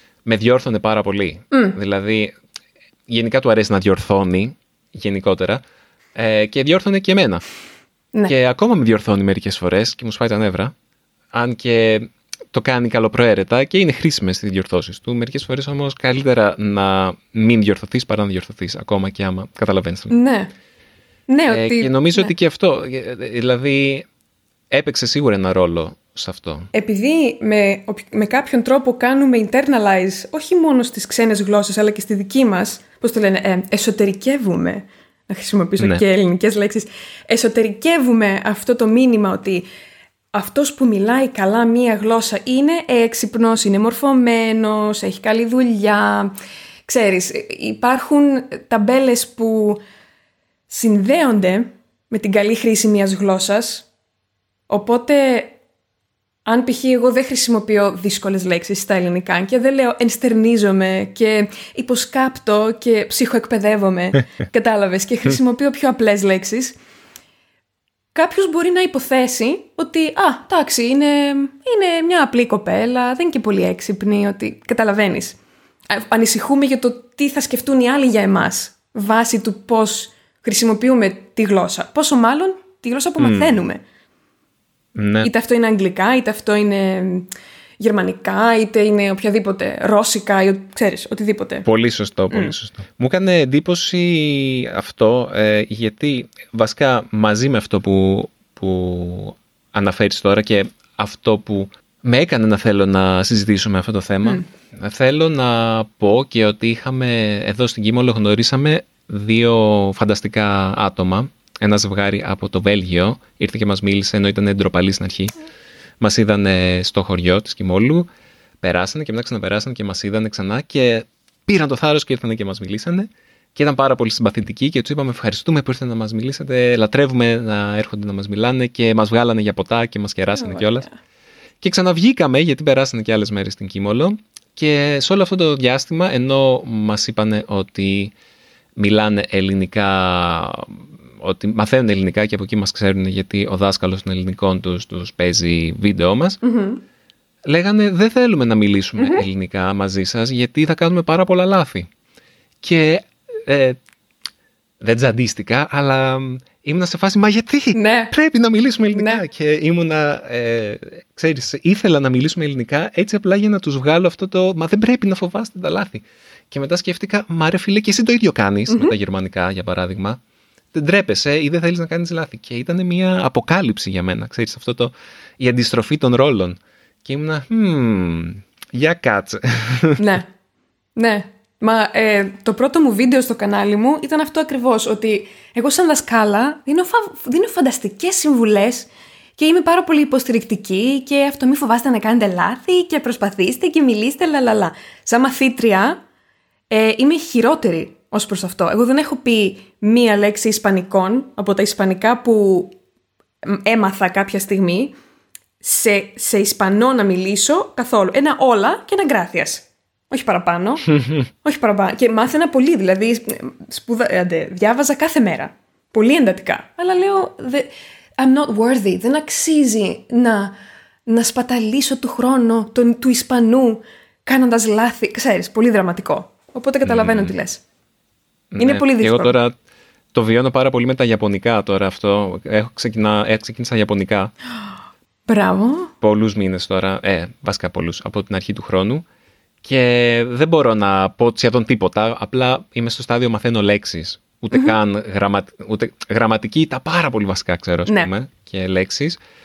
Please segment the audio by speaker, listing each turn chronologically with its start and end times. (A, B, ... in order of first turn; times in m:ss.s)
0:00.2-0:02.3 A
0:01.5-0:01.8 B
0:03.1-0:05.6 A
0:06.2-0:07.4 A
0:08.3-0:10.7 A
0:11.3-0:20.2 A
0:20.1-0:20.5 B
0:21.3-0:22.3 B
0:21.5-0:24.1 A
0:24.7-0:26.7 A
0:26.7-0:39.7 B
0:40.3-0:46.3 B
0:46.9-0:49.8 B
0:50.7-0:53.9 B
0:54.7-0:55.6 B
0:56.5-1:06.8 B
1:08.1-1:15.4 B
1:15.9-1:23.8 B
1:23.2-1:23.6 A
1:25.0-1:25.3 A
1:25.2-1:27.3 B
1:27.8-1:31.7 B
1:31.6-1:55.3 A
1:56.0-1:58.1 A
1:58.6-2:10.9 A
2:10.3-2:11.0 B
2:11.6-2:18.1 A
2:18.8-2:26.4 A
2:26.4-2:26.8 B
2:27.5-2:31.9 A
2:29.0-2:29.2 B
2:32.6-2:33.8 A
2:34.8-2:50.2 A
2:37.7-2:38.1 B
2:38.9-2:39.2 B
2:48.7-2:48.9 B
2:50.7-3:00.0 A
3:00.0-3:00.3 B
3:01.0-3:16.0 B
3:16.7-3:22.8 B
3:23.4-3:25.0 B
3:25.6-3:30.9 B
3:31.4-3:40.6 B
3:41.1-3:47.6 B
3:46.8-3:47.3 A
3:48.5-3:49.5 A
3:48.6-3:49.3 B
3:50.1-3:54.3 A
3:55.3-3:55.9 B
3:56.0-3:59.0 A
3:59.6-4:09.2 A
4:07.9-4:08.1 B